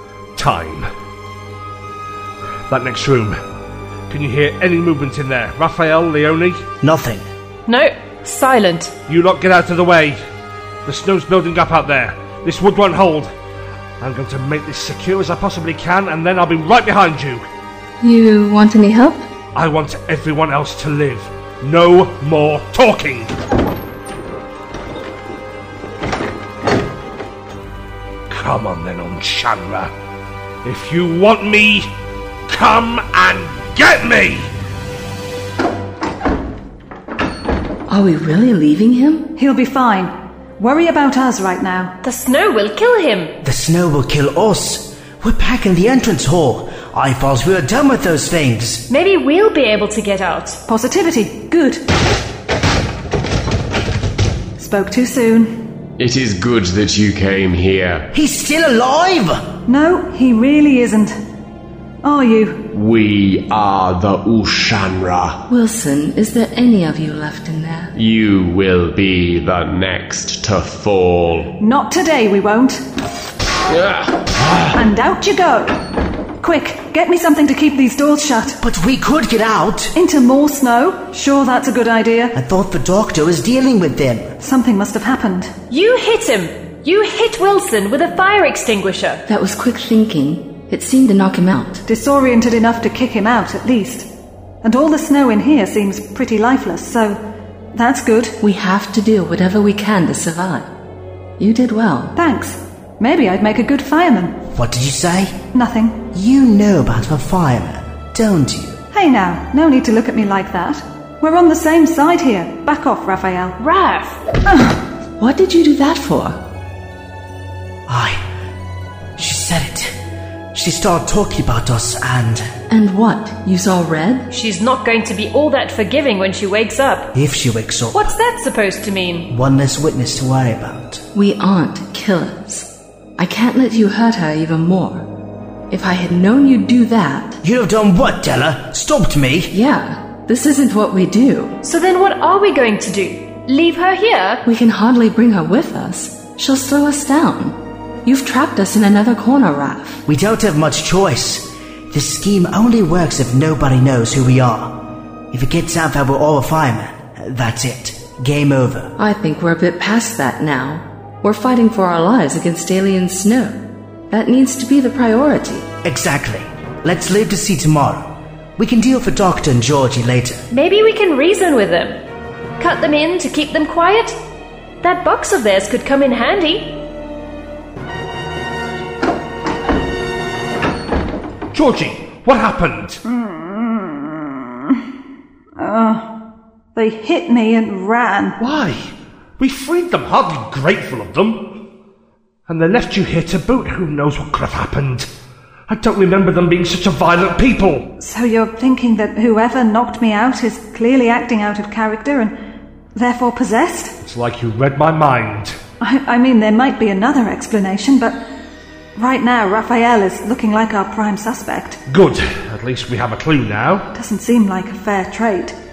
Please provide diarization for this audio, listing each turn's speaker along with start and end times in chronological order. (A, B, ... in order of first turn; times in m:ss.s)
0:00.4-0:00.9 A
0:02.7-0:03.4 A
0:04.1-0:06.6 A
0:06.8-0:07.2 B
0:07.7-0:08.9 C
0:09.1-0:10.2 A
0:10.8-0:13.3 A
0:14.0-0:17.4 A
0:18.0-0:19.2 D
0:19.5-0:23.3 A
0:28.3-0:29.9 A
0:30.6-0:31.9 A
0:32.5-0:34.5 A
0:37.9-0:39.3 D
0:39.4-0:41.9 E
0:42.0-0:43.4 C
0:43.4-0:48.8 B
0:48.9-0:50.6 C
0:50.7-0:51.8 E
0:54.6-0:55.6 E
0:56.0-0:58.1 F
0:58.1-0:59.4 B
0:59.7-1:01.2 E
1:02.0-1:02.7 E
1:02.7-1:05.4 F
1:05.5-1:07.9 D
1:07.9-1:11.5 F
1:11.6-1:12.8 E
1:13.7-1:14.7 F
1:14.7-1:15.8 E
1:16.4-1:18.6 E
1:18.6-1:19.9 B
1:19.9-1:22.3 E
1:22.3-1:24.4 B
1:24.4-1:25.5 E
1:25.7-1:29.2 C
1:29.3-1:31.8 D
1:31.8-1:34.1 E
1:34.6-1:37.2 E
1:37.7-1:38.4 E
1:38.4-1:40.7 D
1:41.4-1:42.1 D
1:42.1-1:44.4 E
1:44.5-1:45.3 B
1:45.5-1:46.0 E
1:46.1-1:48.8 B
1:48.9-1:53.6 E
1:53.6-1:54.2 C
1:54.4-1:54.8 E
1:55.2-1:56.4 D
1:57.9-1:58.2 B
1:59.2-2:00.0 B
2:00.5-2:02.5 B
2:02.7-2:04.3 D
2:04.3-2:07.1 C
2:07.1-2:08.1 B
2:07.9-2:09.3 C
2:09.3-2:11.0 B
2:11.1-2:15.0 D
2:15.7-2:17.4 D
2:17.4-2:19.5 B
2:19.5-2:21.6 D
2:21.6-2:24.4 C
2:24.4-2:30.0 D
2:30.0-2:38.9 B
2:39.0-2:43.6 D
2:44.1-2:45.7 D
2:45.8-2:50.4 B
2:50.5-2:52.0 C
2:52.6-2:54.2 C
2:54.8-2:56.8 C
3:01.5-3:03.0 A
3:03.0-3:04.7 E
3:05.6-3:06.1 E
3:06.7-3:08.4 E
3:08.4-3:11.6 A
3:12.5-3:15.1 A
3:15.7-3:17.9 A
3:18.0-3:22.3 E
3:22.9-3:23.9 E
3:24.0-3:25.6 A
3:25.8-3:28.2 E
3:29.0-3:31.8 E
3:31.9-3:33.9 A
3:33.9-3:35.6 E